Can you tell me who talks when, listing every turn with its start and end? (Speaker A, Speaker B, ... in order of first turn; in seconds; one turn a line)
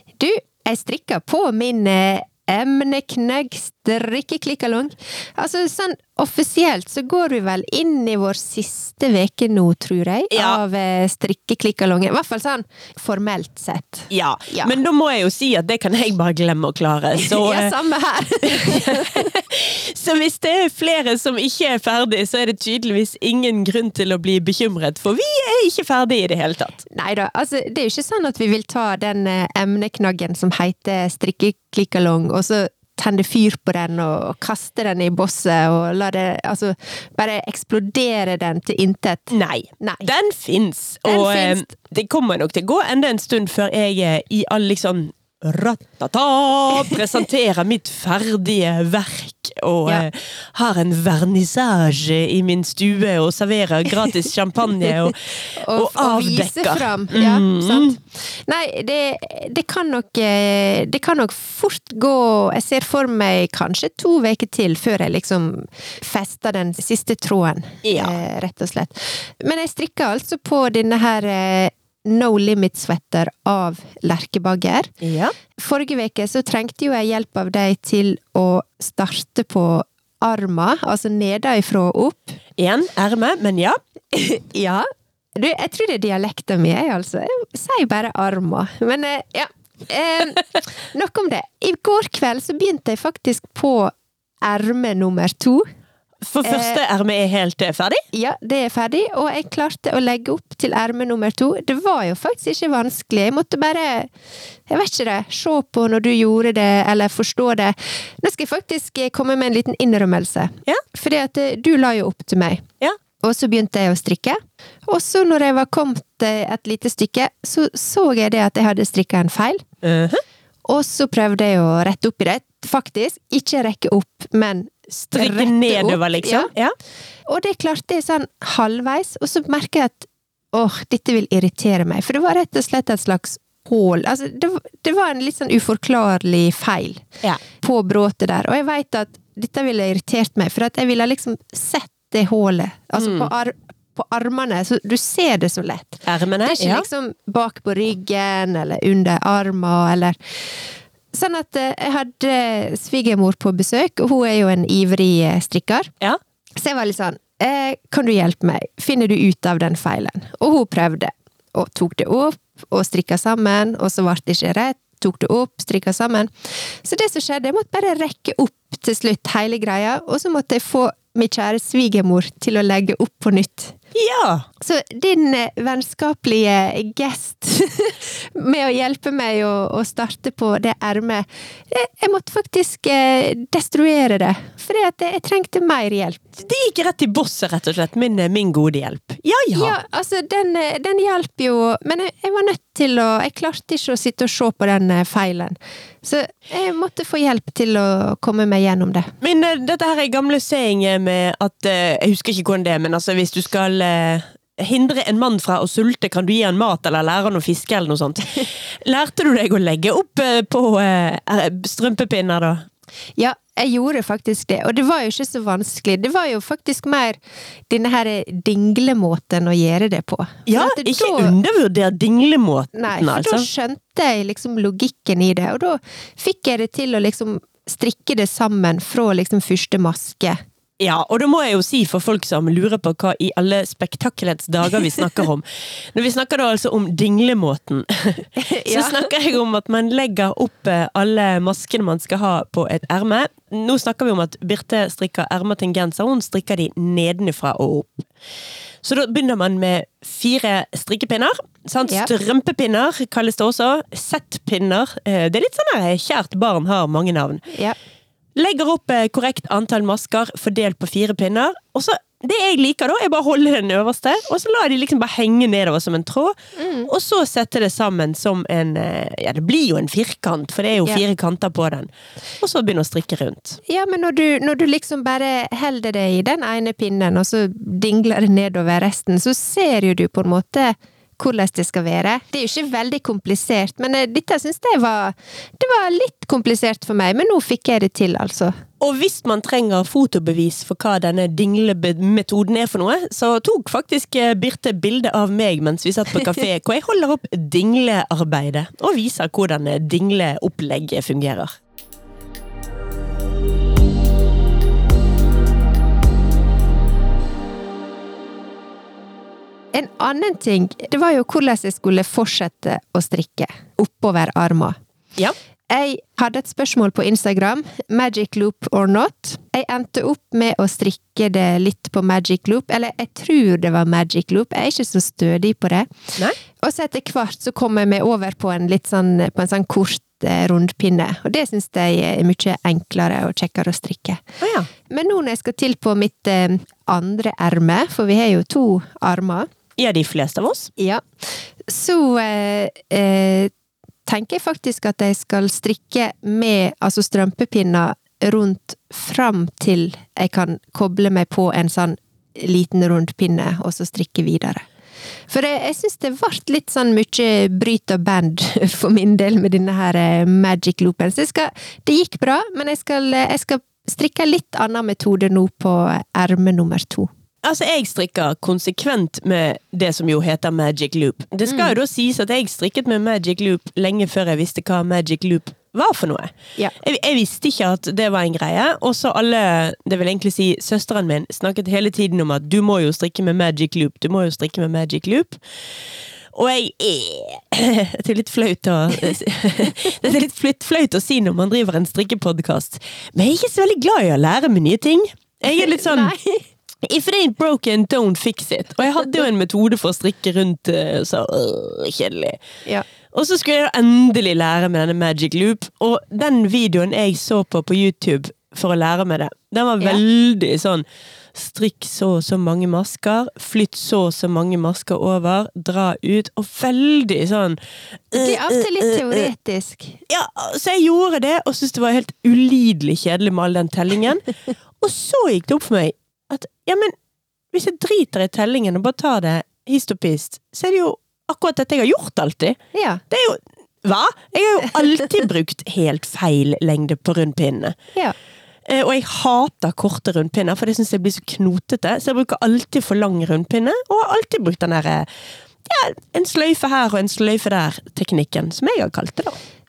Speaker A: 0.2-14.7
Speaker B: 10.3-10.6
Speaker B: 14.1-17.7
Speaker A: 17.2-19.4
Speaker B: 18.4-26.9
Speaker A: 26.9-40.1
Speaker B: 39.3-57.9
Speaker A: 41.1-41.7
Speaker A: 55.6-74.9
Speaker B: 67.8-68.2
Speaker B: 75.0-75.3
Speaker A: 75.5-82.4
Speaker B: 82.6-83.8
Speaker A: 84.1-93.9
Speaker A: 94.4-95.7
Speaker B: 96.2-98.0
Speaker A: 96.4-96.8
Speaker A: 98.1-104.1
Speaker A: 104.7-112.7
Speaker A: 113.2-119.7
Speaker B: 119.8-120.2
Speaker A: 120.7-126.5
Speaker B: 124.9-126.8
Speaker A: 127.3-150.6
Speaker B: 143.0-143.3
Speaker B: 146.1-146.9
Speaker A: 151.1-155.9
Speaker A: 156.6-173.8
Speaker B: 173.9-174.4
Speaker A: 174.6-186.2
Speaker B: 186.4-189.8
Speaker A: 189.5-199.1
Speaker B: 199.2-212.7
Speaker A: 213.2-217.2
Speaker A: 217.7-221.4
Speaker B: 220.5-223.5
Speaker A: 222.8-230.4
Speaker B: 230.8-248.1
Speaker A: 238.4-239.1
Speaker B: 248.8-257.4
Speaker A: 251.8-252.1
Speaker A: 257.5-257.8
Speaker B: 258.4-273.6
Speaker A: 266.6-266.9
Speaker A: 273.7-288.6
Speaker B: 288.8-301.5
Speaker A: 309.7-314.8
Speaker A: 315.7-334.2
Speaker B: 334.4-334.7
Speaker A: 334.9-339.5
Speaker B: 339.8-340.7
Speaker A: 340.8-341.1
Speaker A: 341.7-343.5
Speaker A: 344.1-354.7
Speaker A: 355.3-367.1
Speaker B: 367.4-385.4
Speaker A: 371.5-371.7
Speaker B: 386.3-396.1
Speaker A: 395.5-396.4
Speaker B: 396.8-402.4
Speaker B: 403.1-417.6
Speaker B: 418.1-419.2
Speaker A: 418.1-420.0
Speaker B: 420.1-424.2
Speaker B: 424.8-426.9
Speaker B: 427.5-432.6
Speaker A: 432.7-433.0
Speaker B: 433.1-437.8
Speaker B: 438.7-445.1
Speaker B: 445.6-449.4